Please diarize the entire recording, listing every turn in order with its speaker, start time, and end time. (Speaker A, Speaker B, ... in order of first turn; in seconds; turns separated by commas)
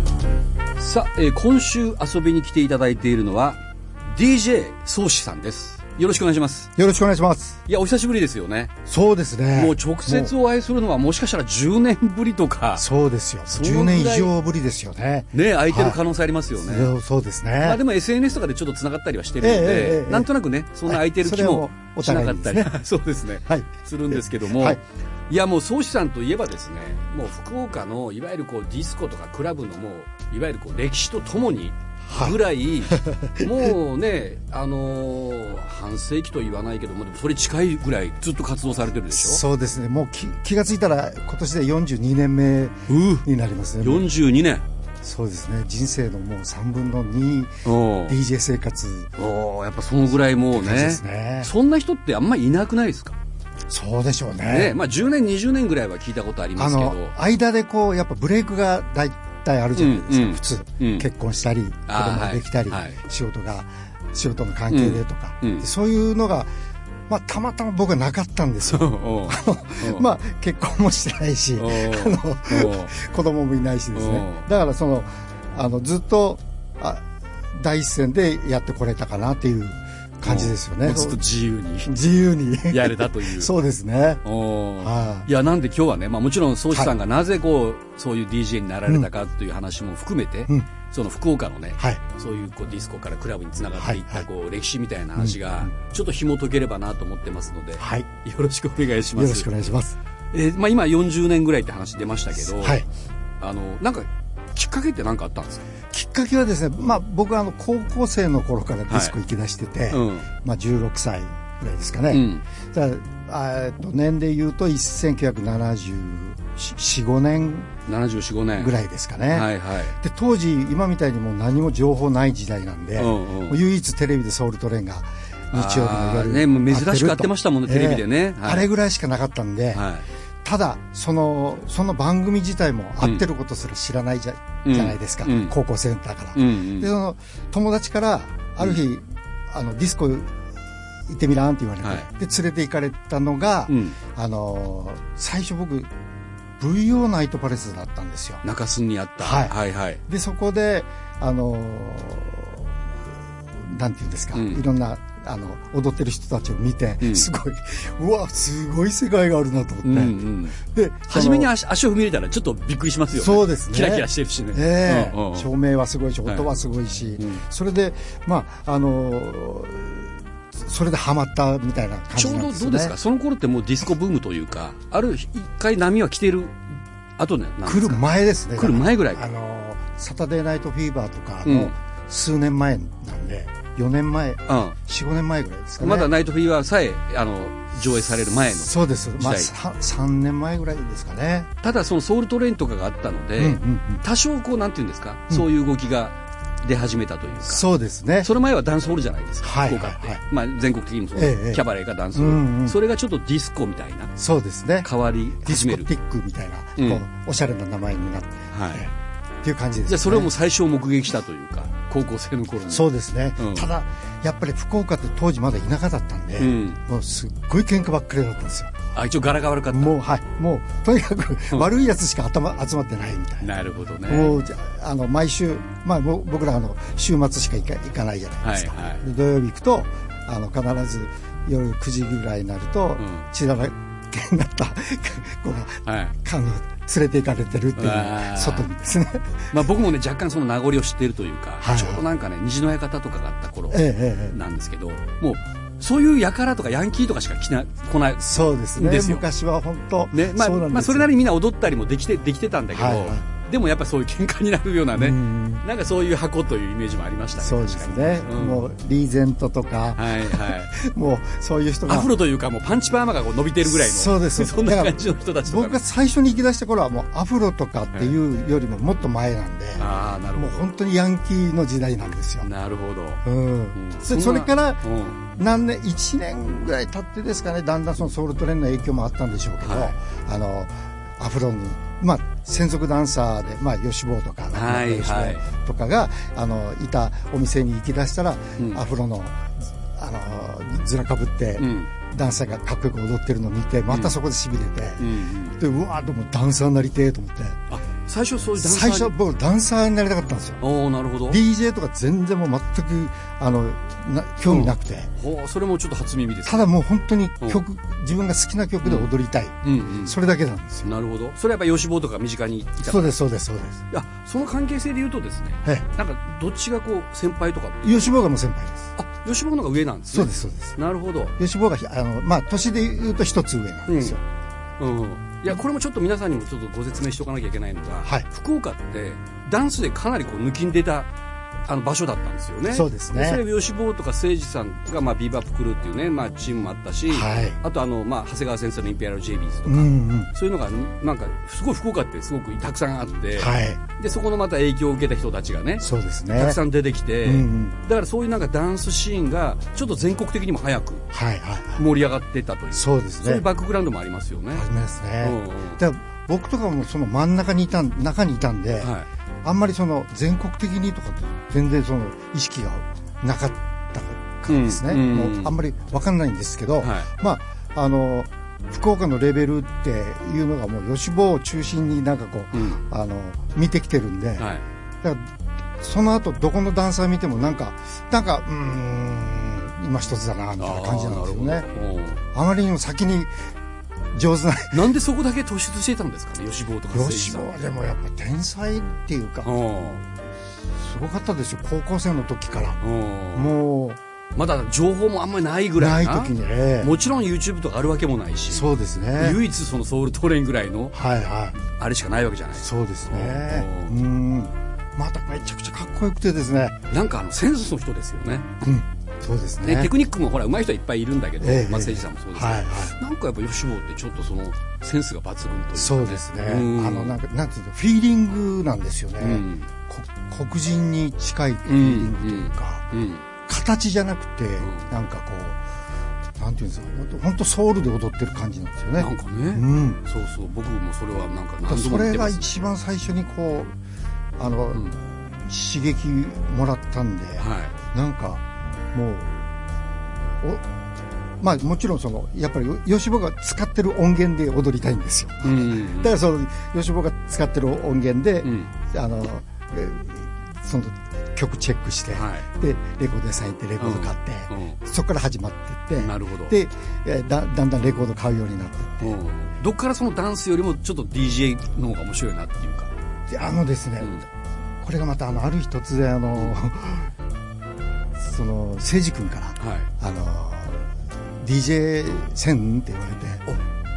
Speaker A: 0.8-3.6, Speaker A: 4.1-6.7, Speaker B: 6.8-7.6, Speaker A: 7.7-8.7, Speaker B: 8.9-10.3, Speaker A: 9.5-12.8, Speaker B: 12.8-16.0, Speaker A: 13.5-14.3, Speaker A: 15.3-16.9, Speaker B: 16.6-17.8, Speaker A: 17.6-39.4, Speaker B: 19.4-20.3, Speaker B: 20.9-22.7, Speaker B: 23.5-24.8, Speaker B: 32.1-32.4, Speaker B: 32.9-33.7, Speaker B: 39.1-44.1, Speaker A: 42.9-43.3, Speaker A: 43.8-44.6, Speaker B: 45.0-49.1, Speaker A: 47.6-48.2, Speaker A: 49.2-53.2, Speaker B: 50.5-51.5, Speaker B: 53.7-54.8, Speaker A: 54.5-57.1, Speaker B: 56.6-66.5, Speaker A: 59.8-61.1, Speaker A: 61.9-63.0, Speaker A: 64.7-65.7, Speaker B: 67.1-81.2, Speaker A: 68.7-70.0, Speaker A: 71.6-72.9, Speaker A: 73.9-74.5, Speaker A: 80.2-82.0, Speaker B: 81.8-84.2, Speaker A: 82.7-83.5, Speaker A: 84.2-99.5, Speaker B: 84.8-85.3, Speaker B: 93.8-94.3, Speaker B: 95.2-95.7, Speaker B: 97.8-98.1, Speaker B: 99.1-100.0, Speaker A: 100.3-102.8, Speaker B: 102.6-102.9, Speaker A: 103.4-105.7, Speaker B: 105.9-117.7, Speaker A: 108.9-109.2, Speaker A: 109.9-110.3, Speaker A: 112.1-112.4, Speaker A: 117.9-118.8, Speaker B: 118.6-129.8, Speaker A: 119.3-120.0, Speaker A: 123.0-123.6, Speaker A: 125.5-128.7, Speaker A: 129.7-130.1, Speaker B: 130.4-140.3, Speaker A: 133.0-133.3, Speaker A: 134.7-135.5, Speaker A: 136.3-136.9, Speaker B: 141.1-145.9, Speaker A: 141.8-142.1, Speaker A: 143.7-144.0, Speaker B: 146.6-148.4, Speaker A: 148.4-150.0, Speaker B: 149.2-149.6, Speaker B: 150.1-153.0, Speaker B: 153.6-161.5, Speaker A: 154.3-154.6, Speaker A: 157.0-157.3, Speaker A: 159.8-160.6, Speaker A: 161.1-165.5, Speaker B: 163.1-172.9, Speaker A: 167.2-167.4, Speaker A: 172.2-176.6, Speaker A: 177.2-178.0, Speaker B: 177.7-186.1, Speaker A: 178.6-179.3, Speaker A: 181.4-181.7, Speaker A: 184.5-184.8, Speaker A: 185.8-189.5, Speaker B: 188.5-191.5, Speaker A: 191.6-197.6, Speaker B: 193.4-194.0, Speaker B: 197.4-198.3, Speaker A: 198.2-204.1, Speaker B: 199.4-200.2, Speaker B: 201.2-201.6, Speaker B: 202.1-202.8, Speaker B: 204.2-204.9, Speaker A: 204.8-205.9, Speaker B: 205.4-210.3, Speaker A: 206.8-207.0, Speaker A: 208.5-208.9, Speaker A: 209.9-213.7, Speaker B: 212.7-218.8, Speaker A: 216.4-216.8, Speaker A: 218.9-220.0, Speaker B: 219.7-223.5, Speaker A: 223.4-224.4, Speaker B: 224.1-239.6, Speaker A: 228.4-229.0, Speaker A: 233.0-233.3, Speaker A: 235.8-236.1, Speaker A: 237.8-238.7, Speaker A: 239.5-249.3, Speaker B: 241.6-242.0, Speaker B: 243.7-244.4, Speaker B: 248.2-251.1, Speaker A: 250.1-258.7, Speaker B: 252.7-253.2, Speaker B: 254.9-255.6, Speaker B: 257.4-262.1, Speaker A: 260.0-260.7, Speaker A: 261.9-265.8, Speaker B: 263.6-272.5, Speaker A: 269.8-270.7, Speaker A: 272.4-273.2, Speaker B: 273.2-297.6, Speaker A: 273.8-275.2, Speaker A: 279.6-279.9, Speaker A: 284.5-285.4, Speaker A: 288.6-288.9, Speaker A: 291.6-291.9, Speaker A: 293.9-294.2, Speaker A: 295.0-295.6, Speaker A: 297.7-299.1, Speaker B: 298.6-300.6, Speaker A: 300.6-301.4, Speaker B: 301.3-305.1, Speaker A: 304.5-306.7, Speaker B: 306.5-310.9, Speaker A: 308.8-309.1, Speaker A: 309.6-310.2, Speaker A: 310.8-313.1, Speaker B: 312.8-313.8, Speaker A: 313.9-318.1, Speaker B: 317.8-318.9, Speaker A: 319.0-321.4, Speaker B: 320.1-320.8, Speaker B: 321.4-324.2, Speaker A: 323.9-324.2, Speaker A: 324.8-331.1, Speaker A: 331.7-351.1, Speaker B: 332.7-333.4, Speaker B: 337.1-337.6, Speaker B: 339.6-340.3, Speaker B: 343.4-343.8, Speaker B: 345.8-346.6, Speaker B: 347.2-347.8, Speaker B: 351.1-351.8, Speaker A: 351.8-354.7, Speaker B: 352.7-353.5, Speaker B: 354.5-358.9, Speaker A: 355.2-355.8, Speaker A: 358.8-359.1, Speaker B: 359.4-374.5, Speaker A: 364.5-365.6, Speaker A: 366.8-367.1, Speaker A: 372.5-372.8, Speaker A: 374.4-374.6, Speaker B: 375.8-381.7, Speaker A: 380.6-382.2, Speaker B: 382.3-383.3, Speaker B: 384.1-384.8, Speaker A: 384.7-387.5, Speaker B: 386.9-389.5, Speaker A: 389.4-390.0, Speaker B: 390.8-392.8, Speaker A: 392.8-393.6, Speaker B: 393.4-394.0, Speaker A: 394.4-401.0, Speaker B: 395.8-396.9, Speaker B: 398.5-399.4, Speaker B: 400.9-401.6, Speaker A: 401.6-404.0, Speaker B: 402.6-406.9, Speaker A: 406.9-408.6, Speaker B: 408.6-409.9, Speaker A: 409.6-417.2, Speaker B: 411.4-413.0, Speaker B: 415.8-422.9, Speaker A: 419.2-419.7, Speaker A: 421.6-423.2, Speaker B: 423.5-425.6, Speaker A: 424.6-424.9, Speaker B: 426.4-430.0, Speaker A: 429.0-432.6, Speaker B: 431.7-433.8, Speaker B: 434.4-439.4, Speaker A: 437.4-437.8, Speaker B: 441.4-459.1, Speaker A: 445.4-446.2, Speaker A: 448.4-448.7, Speaker A: 452.1-452.5, Speaker A: 453.8-454.8, Speaker A: 456.0-456.6, Speaker A: 459.0-462.9, Speaker B: 463.3-464.2, Speaker B: 464.8-467.1, Speaker B: 468.2-470.9, Speaker A: 469.6-469.9, Speaker B: 471.4-473.4